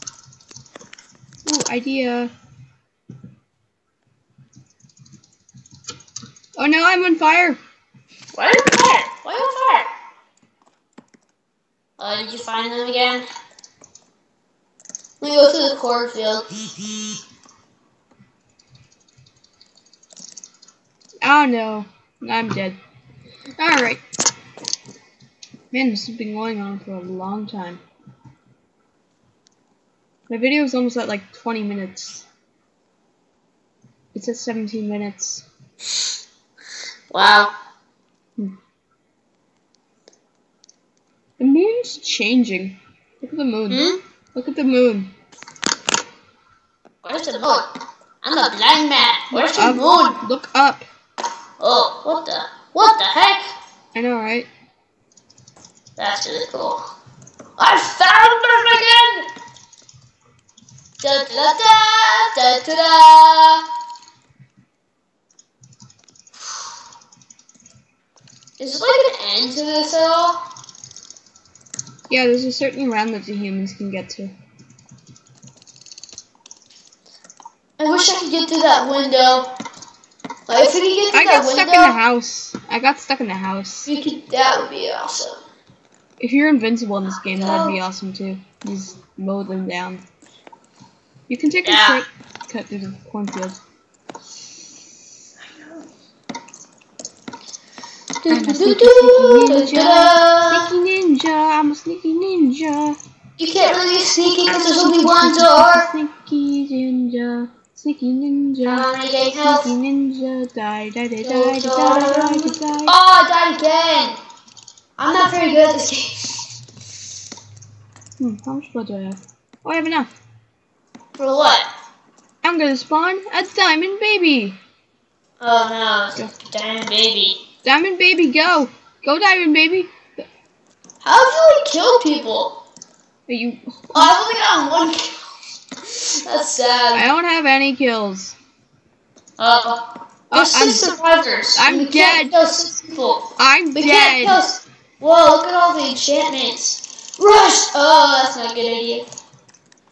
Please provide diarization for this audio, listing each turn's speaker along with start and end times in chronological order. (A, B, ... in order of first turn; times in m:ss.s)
0:01.4-0:02.3 A
0:06.6-0:07.6 A
0:08.3-0:09.9 B
0:12.0-0:13.3 B
0:15.2-0:16.5 B
0:21.2-0:22.8 A
0:23.6-0:24.0 A
0:25.7-0:27.8 A
0:30.3-0:32.3 A
0:34.1-0:35.4 A
0:37.1-0:37.5 B
0:41.4-0:45.1 A
0:43.7-0:44.0 B
0:47.0-0:47.7 B
0:48.2-0:50.2 B
0:49.3-0:50.8 A
0:51.6-0:53.4 B
0:53.9-0:54.5 A
0:56.0-0:56.8 B
0:57.6-0:59.3 B
1:01.0-1:03.6 B
1:08.6-1:10.4 B
1:12.1-1:14.3 A
1:17.8-1:19.5 B
1:20.5-1:22.0 B
1:21.1-1:23.9 A
1:23.9-1:25.4 B
1:26.2-1:30.0 A
1:27.3-1:27.8 B
1:31.3-1:33.6 A
1:31.6-1:32.0 B
1:38.2-1:40.7 B
1:38.3-1:43.0 A
1:43.4-1:45.9 B
1:44.8-1:48.9 A
1:48.6-1:49.7 B
1:49.4-1:52.9 A
1:51.2-1:54.2 B
1:55.0-1:56.5 B
1:58.2-2:00.1 A
2:01.2-2:01.7 B
2:02.4-2:04.6 A
2:05.4-2:07.4 B
2:07.6-2:10.2 A
2:11.0-2:12.6 B
2:13.3-2:14.2 A
2:14.0-2:15.3 B
2:15.8-2:17.1 B
2:16.9-2:18.4 A
2:19.4-2:19.8 B
2:20.3-2:20.9 A
2:20.3-2:29.1 B
2:21.6-2:22.3 A
2:23.4-2:24.4 A